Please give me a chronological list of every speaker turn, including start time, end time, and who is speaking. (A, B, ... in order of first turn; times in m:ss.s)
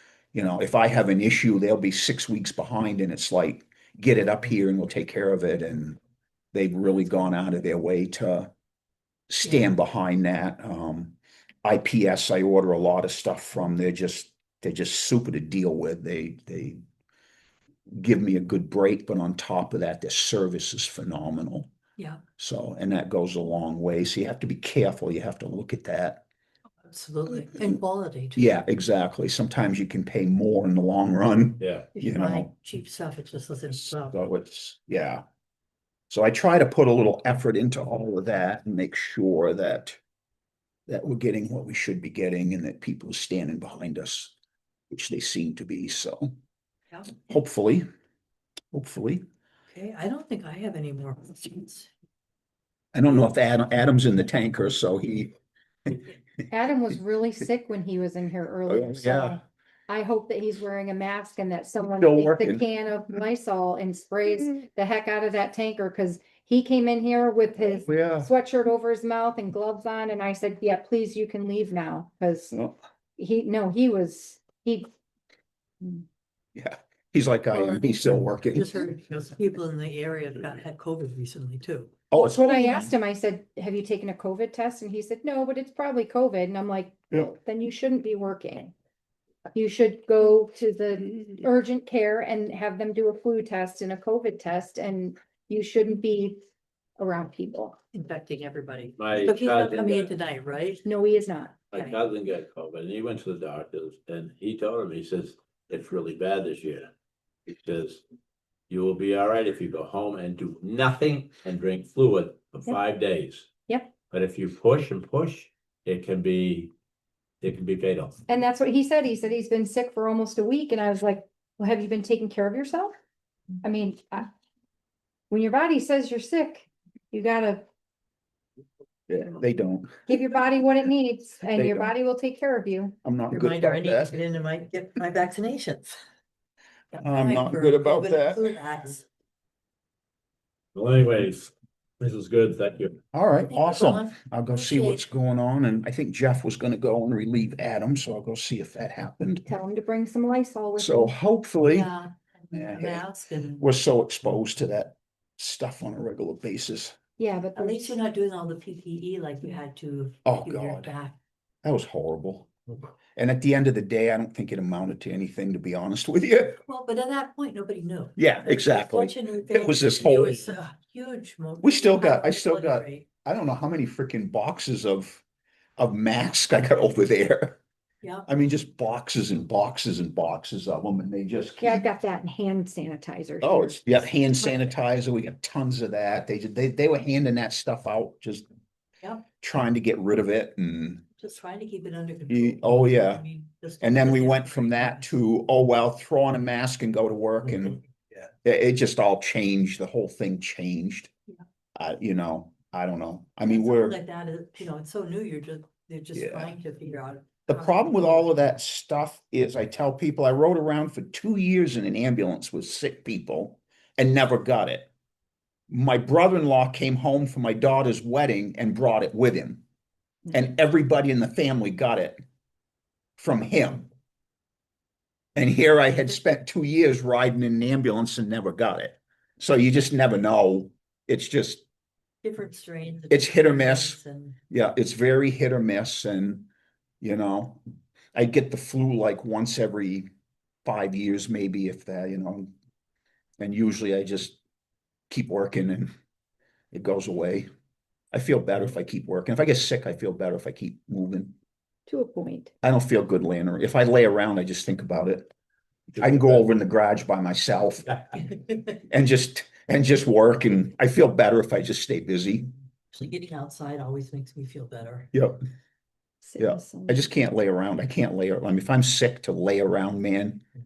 0:00.3-0:06.0 A
0:06.5-0:08.5 A
0:09.3-0:16.8 A
0:09.4-0:09.7 B
0:17.9-0:21.7 A
0:22.4-0:26.2 A
0:26.8-0:28.5 B
0:28.4-0:32.5 A
0:31.6-0:31.9 C
0:31.9-0:34.2 B
0:34.0-0:35.2 A
0:36.1-0:40.0 A
0:40.9-0:44.3 A
0:44.9-0:46.3 A
0:47.2-0:47.9 A
0:48.7-0:49.2 A
0:49.7-0:51.9 B
0:52.9-0:55.3 A
0:56.5-1:12.6 D
0:58.7-0:59.4 A
1:01.9-1:02.6 A
1:07.8-1:08.3 A
1:13.2-1:14.9 D
1:16.5-1:18.8 A
1:18.5-1:21.9 B
1:22.1-1:22.9 A
1:22.2-1:28.7 D
1:29.5-1:36.4 D
1:37.0-1:37.8 D
1:37.9-1:40.8 B
1:39.0-1:40.1 C
1:40.8-1:41.6 D
1:41.7-1:46.9 C
1:47.5-1:48.0 C
1:48.7-1:53.5 C
1:53.7-1:53.9 D
1:54.1-1:56.7 C
1:57.4-1:58.2 C
1:58.3-2:02.9 D
2:03.6-2:04.3 D
2:05.3-2:07.6 D
2:09.1-2:10.0 A
2:10.1-2:12.9 D
2:11.5-2:11.9 A
2:13.0-2:14.2 A
2:13.3-2:16.0 B
2:16.9-2:19.0 B
2:17.0-2:18.4 A
2:20.7-2:23.0 C
2:23.1-2:29.5 A
2:23.5-2:25.0 B
2:29.5-2:31.1 D
2:30.8-2:31.9 A
2:31.6-2:33.6 B
2:32.5-2:33.0 A
2:33.6-2:36.9 A
2:37.2-2:38.0 D
2:37.6-2:41.2 B
2:40.2-2:40.9 A
2:41.6-2:42.5 A
2:43.2-2:46.6 A
2:46.6-2:53.1 B
2:48.2-2:50.5 A
2:51.6-2:55.2 A
2:55.8-2:57.6 A
2:58.0-2:58.3 B
2:58.3-3:01.8 A
3:01.6-3:04.4 D
3:03.4-3:08.4 A
3:09.4-3:11.0 A
3:11.2-3:15.2 B
3:12.3-3:13.2 A
3:13.8-3:17.8 A
3:18.4-3:21.1 A
3:21.8-3:24.0 A
3:23.5-3:28.3 B
3:26.1-3:26.5 A
3:27.5-3:34.9 A
3:35.7-3:39.6 A
3:40.3-3:42.2 A
3:43.2-3:43.9 A
3:45.3-3:51.6 A
3:52.2-3:54.4 B
3:53.1-3:54.0 A
3:54.5-3:56.5 A
3:57.0-3:57.6 A
3:58.1-4:00.1 A
4:00.6-4:02.5 A
4:03.4-4:04.4 A
4:05.1-4:05.9 A
4:06.7-4:07.5 A
4:08.1-4:11.3 A
4:11.9-4:12.5 D
4:12.6-4:15.3 A
4:16.0-4:18.1 A
4:18.9-4:22.5 A
4:22.9-4:25.1 B
4:25.1-4:25.4 A
4:26.2-4:27.0 D
4:26.4-4:30.4 A